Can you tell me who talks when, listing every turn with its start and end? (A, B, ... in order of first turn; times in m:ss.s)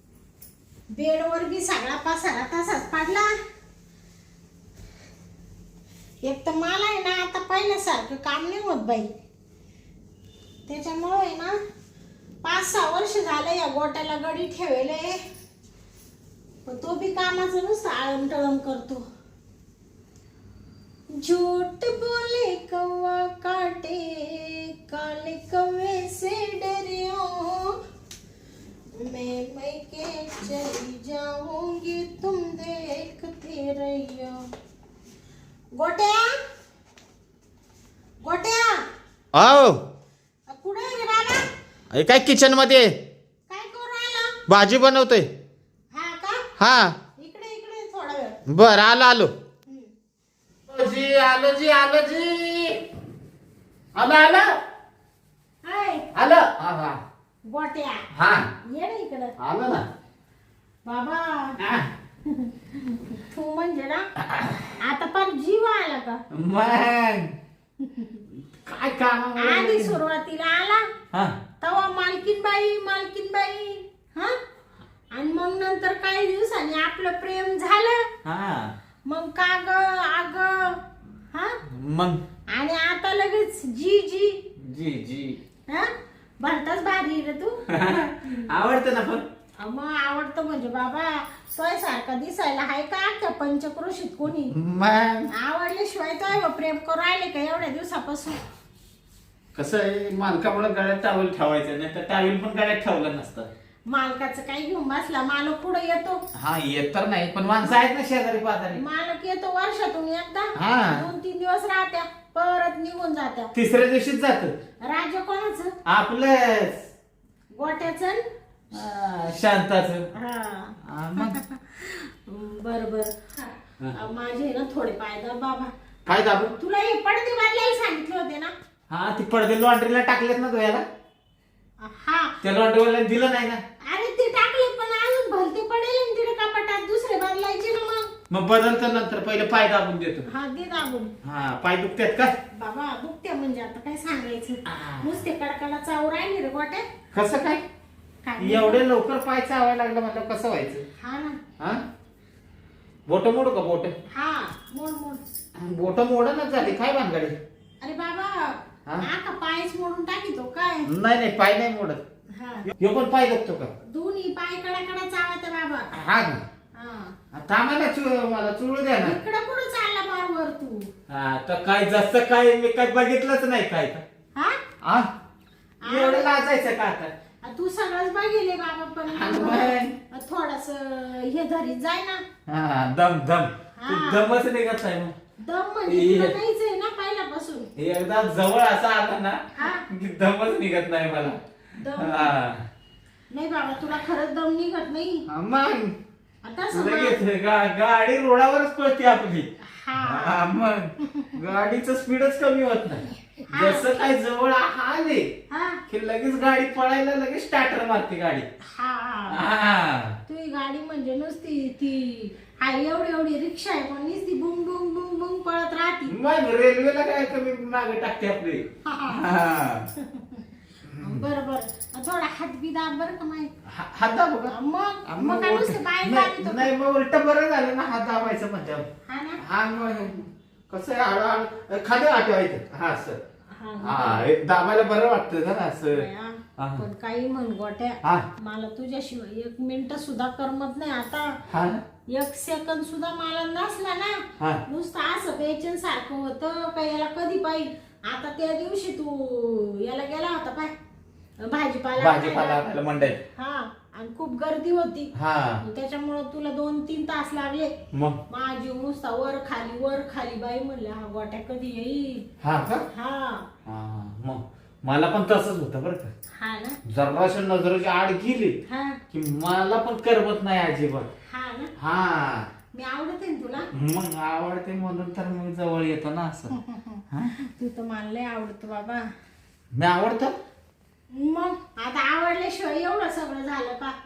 0:00.9-0:03.3 A
0:06.2-0:09.1 A
0:10.7-0:11.5 A
0:12.4-0:15.2 A
0:16.6-0:19.0 A
0:21.1-0:27.8 A
0:29.0-0:34.4 A
0:35.8-0:36.4 A
0:38.2-0:38.8 A
0:39.3-0:39.8 B
0:40.5-0:41.5 A
0:41.9-0:43.0 B
0:43.5-0:44.4 A
0:44.5-0:45.3 B
0:45.9-0:46.4 A
0:46.6-0:46.9 B
0:47.2-0:48.4 A
0:48.5-0:49.3 B
0:50.7-0:52.8 B
0:53.9-0:54.5 B
0:55.6-0:56.0 A
0:56.1-0:57.0 B
0:57.4-0:58.0 A
0:58.1-0:58.5 B
0:58.6-0:59.3 A
0:59.4-0:59.8 B
1:00.8-1:01.6 A
1:01.6-1:01.9 B
1:02.2-1:04.0 A
1:04.2-1:04.7 B
1:04.8-1:06.2 A
1:06.3-1:07.3 B
1:07.8-1:08.2 A
1:08.3-1:10.0 B
1:09.4-1:10.9 A
1:11.1-1:11.4 B
1:11.6-1:14.4 A
1:15.1-1:18.1 A
1:18.2-1:18.7 B
1:19.1-1:20.8 A
1:21.3-1:21.6 A
1:21.6-1:22.2 B
1:22.5-1:24.4 A
1:24.6-1:25.4 B
1:25.7-1:27.7 A
1:27.7-1:29.2 B
1:28.2-1:28.5 A
1:29.6-1:34.5 A
1:34.5-1:35.3 B
1:35.3-1:38.4 A
1:39.5-1:43.5 B
1:43.9-1:46.2 A
1:46.3-1:48.8 B
1:48.7-1:53.5 A
1:50.6-1:51.1 B
1:53.5-1:54.5 B
1:54.8-1:55.7 A
1:55.8-1:56.8 B
1:57.5-1:58.2 A
1:58.7-2:00.1 B
2:00.1-2:05.7 A
2:00.8-2:01.4 B
2:06.1-2:06.5 B
2:06.6-2:08.5 A
2:08.9-2:10.8 B
2:11.8-2:12.4 A
2:12.4-2:13.6 B
2:13.8-2:18.1 A
2:18.3-2:20.2 B
2:20.2-2:21.1 A
2:21.2-2:22.3 B
2:22.5-2:26.8 A
2:24.6-2:25.2 B
2:27.1-2:27.6 B
2:28.2-2:28.8 A
2:28.4-2:30.8 B
2:31.0-2:31.4 A
2:31.6-2:31.8 B
2:33.1-2:33.9 B
2:34.1-2:35.2 A
2:35.6-2:37.4 B
2:37.8-2:40.9 A
2:40.8-2:42.0 B
2:42.3-2:42.7 A
2:42.7-2:43.7 B
2:43.8-2:45.9 A
2:45.9-2:46.4 B
2:46.7-2:47.1 A
2:47.3-2:49.2 B
2:49.0-2:50.9 A
2:51.1-2:54.0 B
2:54.4-2:54.6 A
2:54.8-2:55.1 B
2:55.8-2:56.3 A
2:55.8-2:57.1 B
2:57.4-3:02.2 A
2:59.1-2:59.9 B
3:02.5-3:05.1 B
3:03.8-3:04.2 A
3:05.4-3:07.7 A
3:05.9-3:06.4 B
3:07.8-3:11.4 B
3:09.6-3:09.8 A
3:11.8-3:12.3 A
3:11.9-3:12.6 B
3:13.3-3:15.2 A
3:15.3-3:15.9 B
3:16.4-3:17.2 A
3:16.7-3:25.3 B
3:19.6-3:20.4 A
3:21.0-3:21.4 A
3:23.5-3:24.0 A
3:25.5-3:25.8 A
3:25.9-3:28.5 B
3:28.7-3:29.4 A
3:29.3-3:30.2 B
3:30.3-3:36.1 A
3:36.1-3:39.9 B
3:38.8-3:39.2 A
3:40.0-3:40.4 A
3:40.8-3:41.3 B
3:41.0-3:43.5 A
3:43.6-3:44.5 B
3:44.5-3:46.7 A
3:45.0-3:48.8 B
3:49.0-3:49.4 A
3:49.4-3:53.2 B
3:53.6-3:54.3 A
3:53.8-3:56.0 B
3:55.8-4:01.4 A
3:56.6-3:56.8 B
4:01.4-4:01.8 B
4:02.1-4:10.7 A
4:04.4-4:04.6 B
4:11.4-4:12.6 A
4:12.0-4:13.2 B
4:13.4-4:17.7 A
4:15.1-4:15.6 B
4:17.9-4:18.2 B
4:18.3-4:22.2 A
4:22.4-4:22.8 B
4:22.9-4:23.5 A
4:23.6-4:26.1 B
4:26.4-4:26.8 A
4:26.8-4:28.5 B
4:28.7-4:29.0 A
4:29.1-4:31.1 B
4:31.3-4:31.7 A
4:31.8-4:32.5 B
4:32.7-4:33.7 A
4:33.7-4:36.5 B
4:36.5-4:39.0 A
4:37.1-4:37.3 B
4:39.7-4:40.4 B
4:41.1-4:44.0 A